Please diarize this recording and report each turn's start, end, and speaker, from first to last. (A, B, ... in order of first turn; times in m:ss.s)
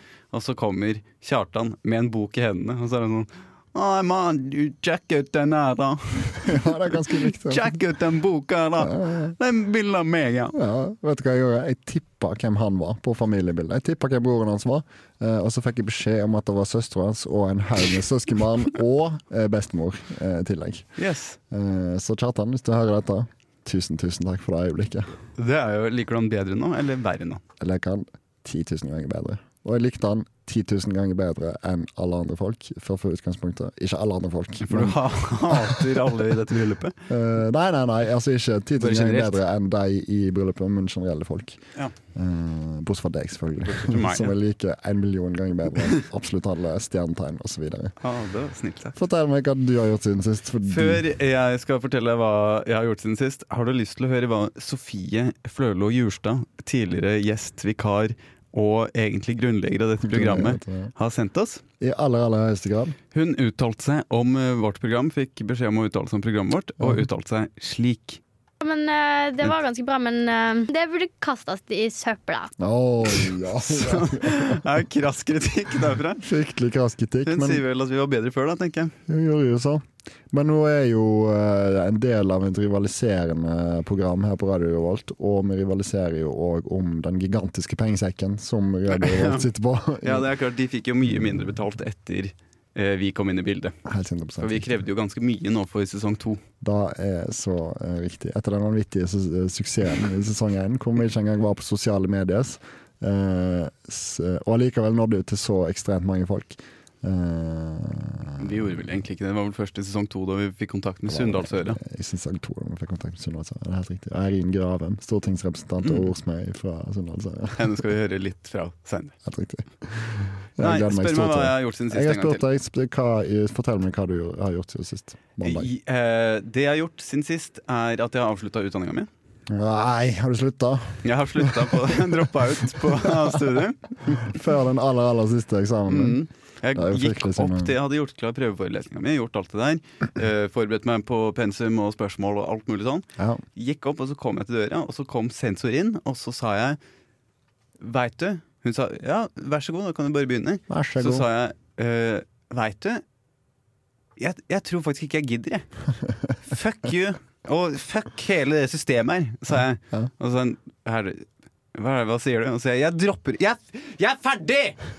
0:00.3-0:10.6 A
0:06.4-0:07.7 B
0:08.8-0:09.3 B
0:10.5-0:21.0 B
0:21.0-0:21.4 A
0:21.5-0:25.2 B
0:25.4-0:27.4 A
0:27.6-0:36.1 B
0:34.6-0:37.0 A
0:37.1-0:41.6 B
0:38.8-0:39.4 A
0:42.1-0:48.0 B
0:43.6-0:44.3 A
0:48.0-0:49.0 A
0:49.0-0:51.0 B
0:50.6-1:01.6 A
1:00.0-1:00.9 B
1:01.8-1:03.0 B
1:03.1-1:08.2 A
1:08.6-1:12.5 C
1:12.6-1:14.6 B
1:13.6-1:16.2 A
1:16.2-1:17.6 B
1:17.2-1:18.9 A
1:19.1-1:30.3 B
1:28.9-1:29.5 A
1:30.0-1:33.7 A
1:33.8-1:34.7 B
1:34.4-1:36.4 A
1:36.6-1:48.7 B
1:48.4-1:51.8 A
1:51.1-1:57.7 B
1:57.6-1:59.1 A
1:59.2-2:05.7 B
2:00.6-2:02.4 A
2:05.4-2:09.1 A
2:09.5-2:12.1 B
2:11.0-2:14.3 A
2:12.8-2:13.4 B
2:14.1-2:16.2 B
2:15.9-2:26.8 A
2:16.7-2:17.7 B
2:23.2-2:23.4 B
2:27.8-2:33.0 A
2:30.7-2:31.2 B
2:34.2-2:35.7 A
2:36.4-2:44.8 A